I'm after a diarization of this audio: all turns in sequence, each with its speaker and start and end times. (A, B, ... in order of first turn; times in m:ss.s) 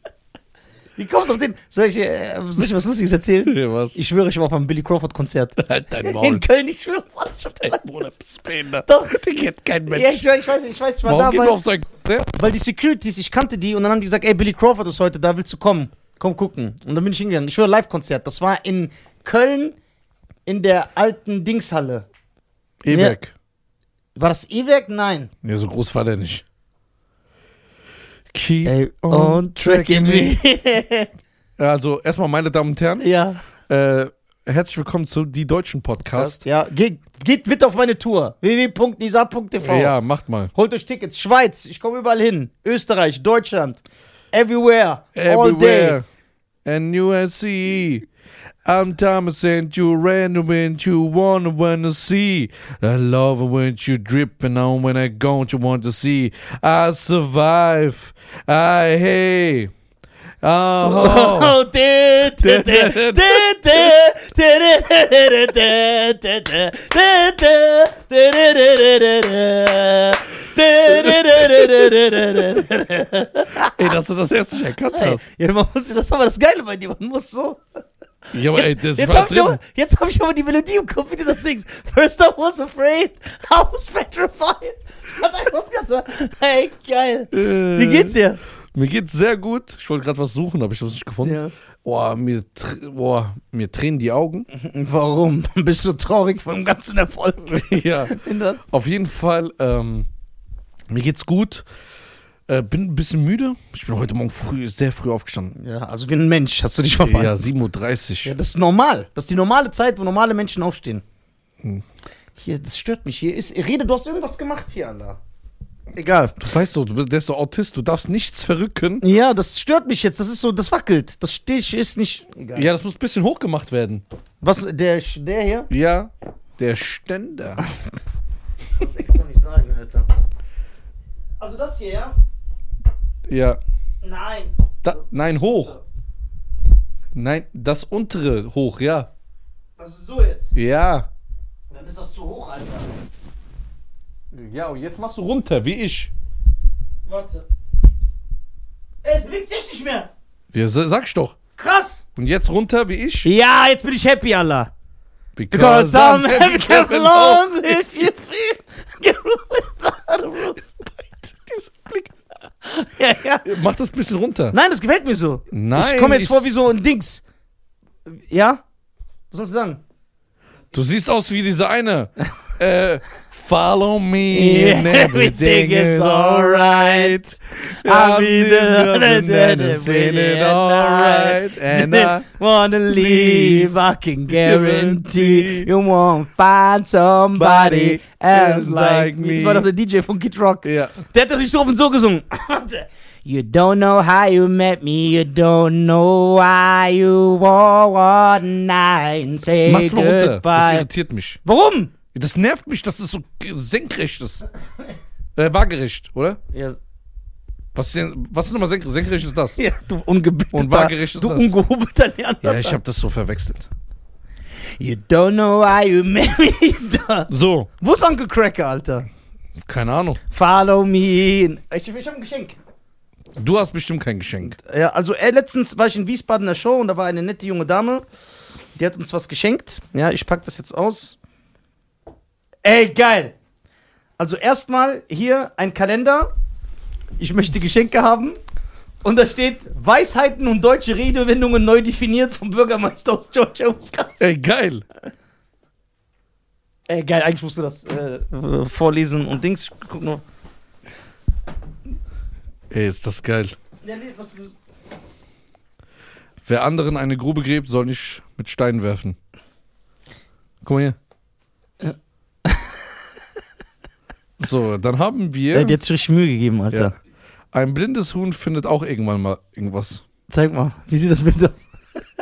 0:01.0-0:08.1 A
0:03.4-0:04.0 B
0:05.6-0:06.4 B
0:07.6-0:10.2 B
0:08.9-0:09.2 A
0:09.9-0:11.6 A
0:11.0-0:12.4 B
0:12.4-0:19.8 A
0:20.5-0:22.1 A
0:22.8-0:23.3 B
0:22.9-0:23.2 A
0:24.2-0:25.3 A
0:25.4-0:26.4 B
0:28.3-0:30.4 B
0:28.6-0:31.1 A
0:31.6-0:33.1 B
0:33.0-0:33.4 A
0:33.7-0:36.4 B
0:36.1-0:39.9 A
0:39.6-0:40.5 B
0:40.6-0:43.8 A
0:44.3-0:46.0 A
0:45.2-0:46.0 B
0:46.6-0:48.1 B
0:48.6-0:59.7 B
1:00.4-1:01.6 B
1:00.8-1:13.9 A
1:02.4-1:03.6 B
1:13.7-1:15.2 B
1:14.9-1:17.6 A
1:18.3-1:19.6 B
1:18.5-1:28.4 A
1:27.3-1:28.2 B
1:28.7-1:34.5 B
1:31.2-1:31.5 A
1:34.5-1:38.6 A
1:37.5-1:40.1 B
1:40.9-1:41.6 B
1:42.5-1:45.6 B
1:45.6-1:47.3 A
1:47.0-1:48.3 B
1:48.2-1:51.0 A
1:52.4-1:55.2 A
1:55.9-1:56.4 A
1:56.4-1:59.0 B
1:59.0-2:02.7 A
2:02.5-2:04.0 B
2:04.4-2:05.7 A
2:05.7-2:07.7 B
2:08.7-2:10.1 A
2:11.4-2:12.2 A
2:13.3-2:13.6 B
2:14.0-2:14.5 A
2:14.8-2:15.8 B
2:17.1-2:19.1 B
2:19.8-2:20.5 A
2:20.6-2:21.1 B
2:21.7-2:22.9 A
2:24.3-2:26.1 B
2:27.0-2:27.4 A
2:29.0-2:30.1 A
2:30.5-2:31.4 B
2:31.6-2:32.0 A
2:32.2-2:33.3 B
2:33.2-2:34.7 A
2:35.4-2:37.9 B
2:35.5-2:40.9 A
2:41.2-2:42.1 B
2:42.6-2:43.5 A
2:43.4-2:44.6 B
2:44.5-2:47.2 A
2:45.5-2:46.5 B
2:48.1-2:48.6 A
2:49.3-2:49.8 A
2:50.7-3:02.3 B
2:54.3-3:20.9 A
3:02.9-3:03.7 B
3:04.3-3:05.7 B
3:07.4-3:09.7 B
3:10.6-3:11.0 B
3:19.6-3:21.4 B
3:21.4-3:21.9 A
3:22.1-3:24.4 B
3:25.4-3:26.4 B
3:26.5-3:26.8 A
3:27.8-3:29.6 B
3:29.6-3:32.8 A
3:30.5-3:31.5 B
3:32.4-3:33.7 B
3:34.8-3:39.1 A
3:37.3-3:37.7 B
3:39.6-3:40.2 B
3:40.3-3:42.6 A
3:43.4-3:44.6 B
3:44.4-3:48.0 A
3:48.8-3:51.2 A
3:52.6-3:53.4 A
3:54.2-3:56.3 A
3:57.2-3:58.4 A
3:59.0-4:04.3 A
4:04.2-4:04.8 B
4:06.9-4:10.2 A
4:12.7-4:13.6 B
4:13.8-4:14.6 A
4:16.5-4:19.2 B
4:20.6-4:21.0 B
4:21.8-4:22.8 A
4:24.4-4:25.8 B
4:25.5-4:26.9 A
4:27.5-4:30.0 B
4:30.3-4:32.0 A